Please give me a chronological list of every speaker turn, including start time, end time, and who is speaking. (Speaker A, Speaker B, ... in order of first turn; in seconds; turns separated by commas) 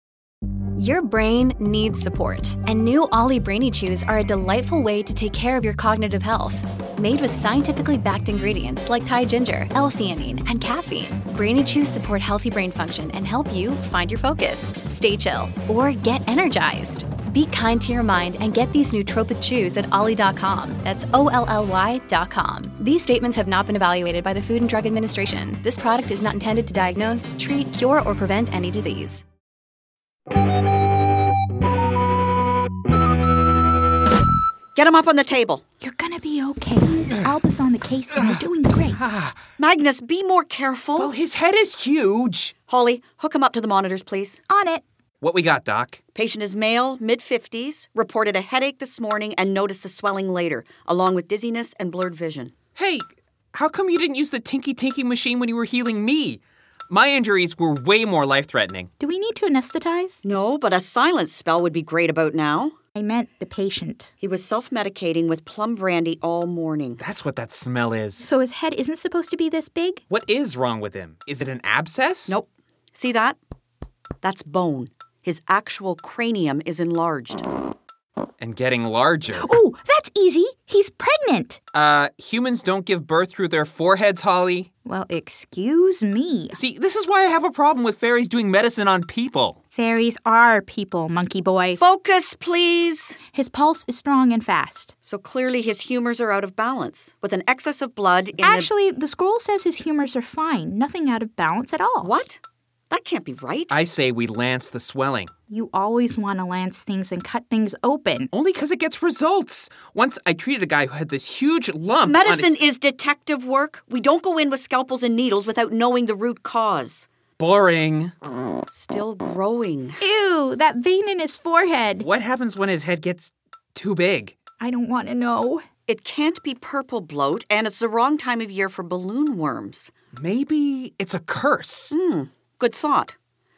Speaker A: 0.8-29.2, Speaker B: 34.8-35.6, Speaker C: 35.8-39.0, Speaker D: 39.0-39.4, Speaker B: 39.6-41.1, Speaker D: 41.0-42.5, Speaker B: 42.7-44.4, Speaker C: 44.5-44.8, Speaker D: 45.2-46.0, Speaker B: 46.1-52.5, Speaker D: 52.8-58.9, Speaker C: 59.0-60.2, Speaker B: 60.2-62.8, Speaker C: 63.0-64.1, Speaker B: 64.2-67.0, Speaker D: 67.0-68.2, Speaker C: 68.2-70.0, Speaker D: 70.1-72.4, Speaker B: 72.3-73.4, Speaker B: 74.2-77.4, Speaker D: 78.4-79.5, Speaker C: 79.4-81.6, Speaker D: 81.7-84.7, Speaker C: 84.8-86.6, Speaker D: 86.5-89.6, Speaker C: 89.7-91.8, Speaker B: 91.7-93.2, Speaker C: 93.3-94.9, Speaker B: 95.0-98.7, Speaker C: 98.4-102.1, Speaker B: 102.0-102.4, Speaker B: 102.9-103.8, Speaker D: 103.7-105.3, Speaker C: 105.5-108.3, Speaker D: 108.3-112.5, Speaker B: 112.0-117.1, Speaker D: 117.4-118.1, Speaker B: 118.7-120.0, Speaker C: 120.0-122.1, Speaker D: 122.0-124.3, Speaker C: 124.6-125.6, Speaker B: 125.9-129.9, Speaker D: 130.1-131.9, Speaker B: 131.9-133.1